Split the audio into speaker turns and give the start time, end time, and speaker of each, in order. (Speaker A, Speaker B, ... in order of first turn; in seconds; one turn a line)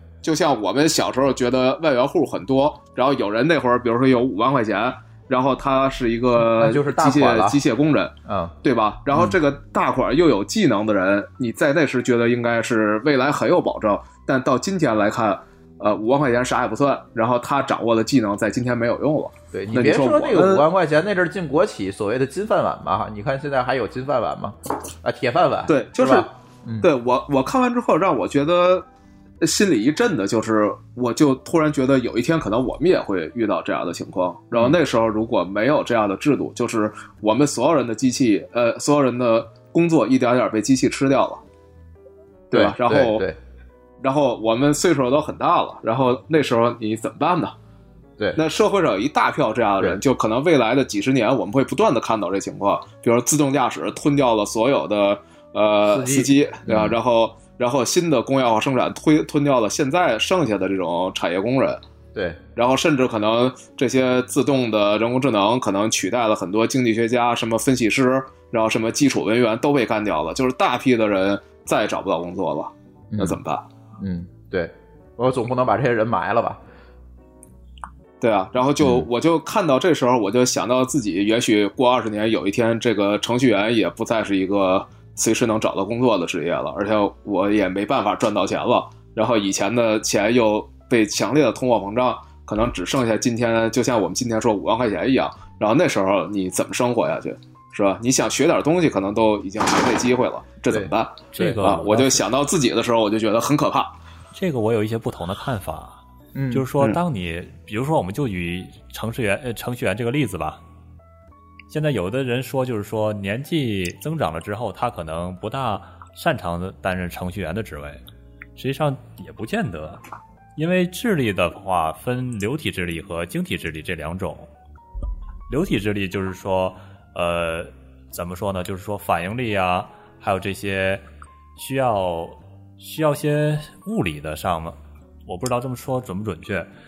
Speaker A: 0.2-20.6
Speaker B: 6.3-7.6
Speaker B: 8.2-8.6
Speaker B: 9.1-9.4
Speaker B: 19.5-26.9
Speaker A: 25.7-26.3
Speaker A: 26.8-28.9
Speaker A: 29.4-41.4
Speaker A: 42.5-43.2
Speaker B: 42.5-43.4
Speaker A: 44.0-47.5
Speaker A: 48.4-61.8
Speaker B: 55.8-57.0
Speaker B: 62.1-62.4
Speaker A: 62.5-73.6
Speaker B: 73.1-73.4
Speaker B: 74.0-76.6
Speaker A: 78.2-104.0
Speaker B: 78.8-79.1
Speaker B: 100.7-101.6
Speaker C: 101.3-102.2
Speaker C: 104.3-106.0
Speaker B: 106.3-106.7
Speaker C: 106.5-110.6
Speaker C: 111.7-118.0
Speaker C: 118.5-120.0
Speaker C: 120.5-124.5
Speaker C: 125.5-131.0
Speaker C: 131.6-136.7